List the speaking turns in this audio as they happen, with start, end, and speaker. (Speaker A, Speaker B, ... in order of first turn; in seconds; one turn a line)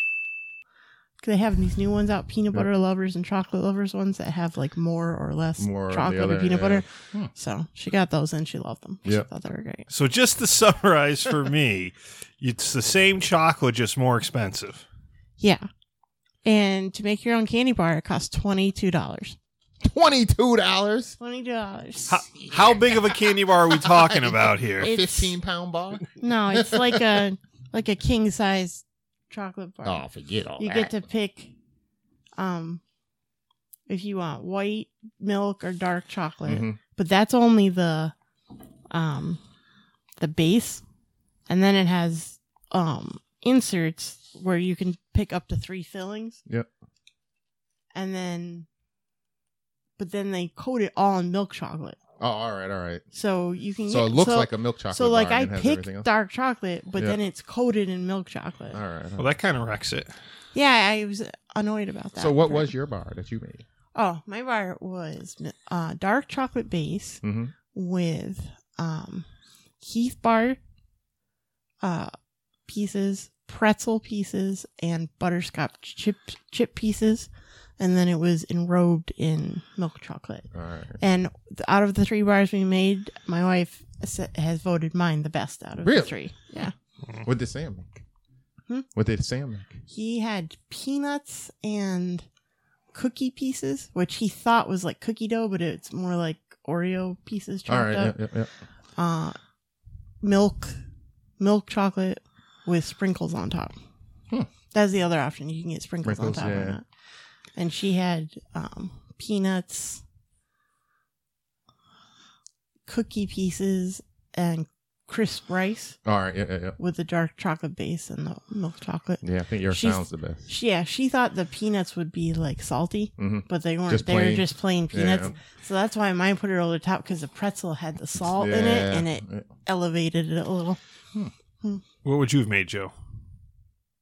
Speaker A: 1.2-9.9
Speaker B: 5.6-7.3
Speaker C: 9.9-14.8
Speaker A: 15.4-15.7
Speaker A: 16.4-19.4
Speaker B: 19.8-21.2
Speaker A: 21.2-22.2
Speaker C: 22.1-24.9
Speaker B: 22.4-27.0
Speaker A: 24.8-25.4
Speaker A: 26.2-30.0
Speaker B: 29.8-30.9
Speaker A: 30.6-31.6
Speaker A: 32.4-32.8
Speaker A: 33.9-38.1
Speaker B: 36.5-36.8
Speaker A: 38.9-39.4
Speaker A: 40.2-40.8
Speaker A: 41.5-46.4
Speaker A: 48.0-48.7
Speaker A: 50.0-52.0
Speaker B: 52.2-53.0
Speaker A: 53.1-58.8
Speaker B: 53.9-56.1
Speaker B: 58.7-59.4
Speaker C: 59.2-60.1
Speaker A: 60.5-62.7
Speaker B: 62.2-63.6
Speaker A: 64.0-69.3
Speaker B: 67.2-67.5
Speaker A: 69.8-70.6
Speaker A: 71.8-72.1
Speaker A: 72.7-80.5
Speaker B: 80.5-81.0
Speaker A: 81.0-86.7
Speaker B: 85.8-86.2
Speaker B: 87.2-88.0
Speaker B: 88.9-89.8
Speaker A: 89.9-92.2
Speaker A: 92.9-98.2
Speaker B: 97.7-98.5
Speaker A: 99.0-99.4
Speaker A: 100.2-100.8
Speaker A: 101.4-103.8
Speaker A: 104.7-106.8
Speaker B: 106.0-106.8
Speaker A: 107.6-110.0
Speaker A: 112.9-116.0
Speaker B: 116.0-116.8
Speaker A: 116.8-130.8
Speaker B: 119.2-120.4
Speaker B: 123.2-125.3
Speaker B: 128.2-129.5
Speaker C: 132.0-132.9